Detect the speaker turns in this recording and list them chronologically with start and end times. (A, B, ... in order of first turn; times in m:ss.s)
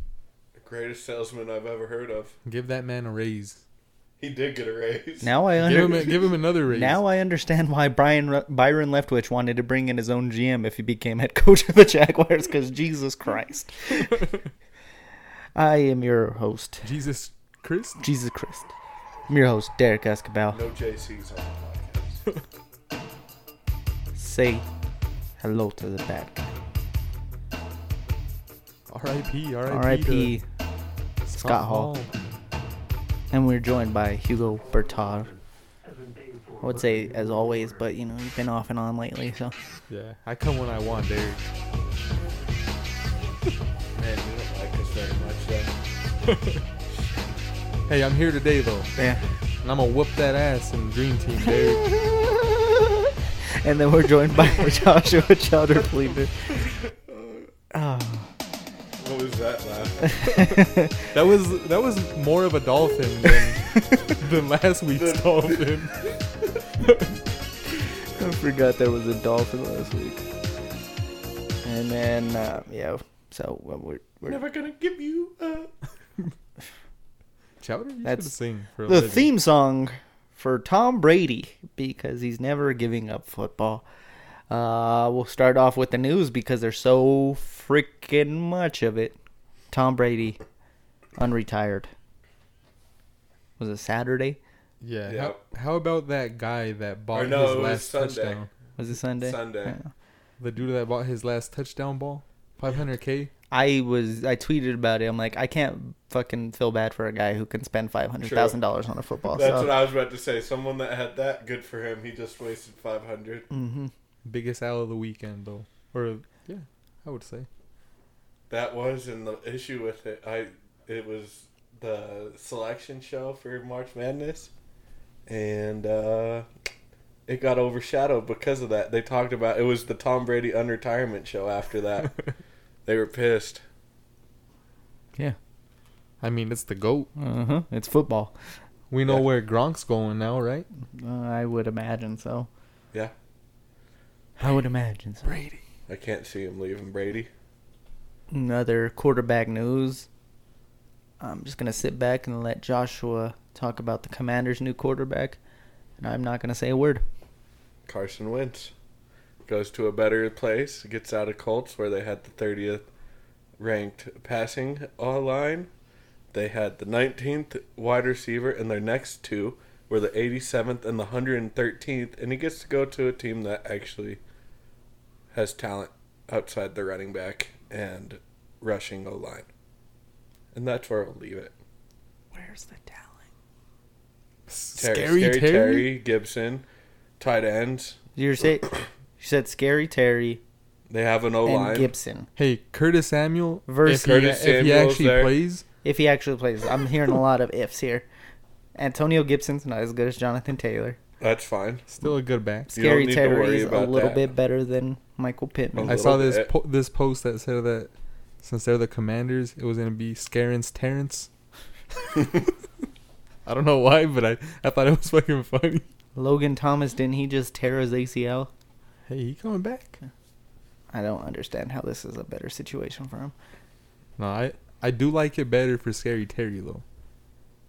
0:00.5-0:02.3 A
0:02.4-0:03.6 B
0:04.2-0:06.1 A
0:05.2-0:14.3 C
0:05.6-0:07.0 B
0:15.5-0:16.9 C
0:16.8-0:18.0 B
0:18.0-0:18.7 C
0:19.3-0:20.6 C
0:20.5-0:22.2 A
0:24.1-0:24.6 C
0:25.4-0:26.5 C
0:28.9-0:30.3 B
0:29.7-0:30.4 C
0:31.2-0:32.1 B
0:31.3-0:31.9 C
0:33.3-0:35.3 C
0:36.6-0:39.5 C
0:39.9-0:41.5 B
0:44.0-0:45.8 A
0:46.3-0:46.6 B
0:47.9-0:48.9 B
0:49.0-0:49.2 C
0:49.6-0:52.0 B
0:51.9-0:52.7 C
0:53.4-0:56.6 C
0:57.1-0:57.5 A
0:57.7-0:58.3 C
0:59.0-1:00.2 A
1:00.1-1:01.1 C
1:01.1-1:06.1 B
1:03.7-1:04.2 C
1:04.9-1:06.6 A
1:08.0-1:10.3 C
1:11.6-1:14.4 C
1:14.2-1:15.7 A
1:17.6-1:19.3 B
1:18.0-1:18.3 C
1:18.9-1:23.8 C
1:24.5-1:29.2 C
1:29.7-1:30.4 C
1:31.2-1:31.9 C
1:33.6-1:34.4 C
1:34.8-1:38.5 B
1:35.0-1:35.4 A
1:37.1-1:38.4 A
1:38.8-1:39.9 C
1:39.2-1:39.8 A
1:40.4-1:43.3 B
1:43.5-1:49.8 C
1:48.2-1:48.6 A
1:49.3-1:53.5 A
1:53.5-1:53.9 C
1:54.2-1:57.5 B
1:58.5-2:04.5 A
2:05.2-2:06.5 A
2:07.3-2:12.2 A
2:12.8-2:13.6 A
2:16.2-2:17.1 B
2:17.2-2:18.3 C
2:18.9-2:20.6 B
2:20.8-2:22.5 C
2:24.4-2:25.5 C
2:25.9-2:27.3 A
2:28.3-2:30.1 C
2:31.2-2:35.4 C
2:36.0-2:37.0 C
2:37.9-2:38.7 A
2:39.4-2:42.8 A
2:43.6-2:45.7 A
2:46.3-2:54.2 A
2:55.3-2:59.5 A
3:00.5-3:01.5 A
3:02.3-3:03.2 C
3:04.5-3:05.9 B
3:04.8-3:06.6 A
3:07.2-3:08.0 A
3:08.2-3:10.4 C
3:10.9-3:11.9 A
3:11.4-3:12.3 C
3:12.4-3:15.6 B
3:13.7-3:14.2 C
3:13.9-3:15.3 A
3:15.8-3:18.1 C
3:18.8-3:21.0 C
3:21.2-3:21.8 A
3:21.9-3:22.7 B
3:22.7-3:26.0 C
3:22.7-3:24.3 A
3:25.7-3:26.5 A
3:25.9-3:27.9 B
3:28.4-3:31.3 B
3:32.0-3:32.4 B
3:33.4-3:35.9 B
3:36.2-3:38.5 C
3:39.1-3:40.0 B
3:40.9-3:43.3 C
3:44.2-3:46.8 B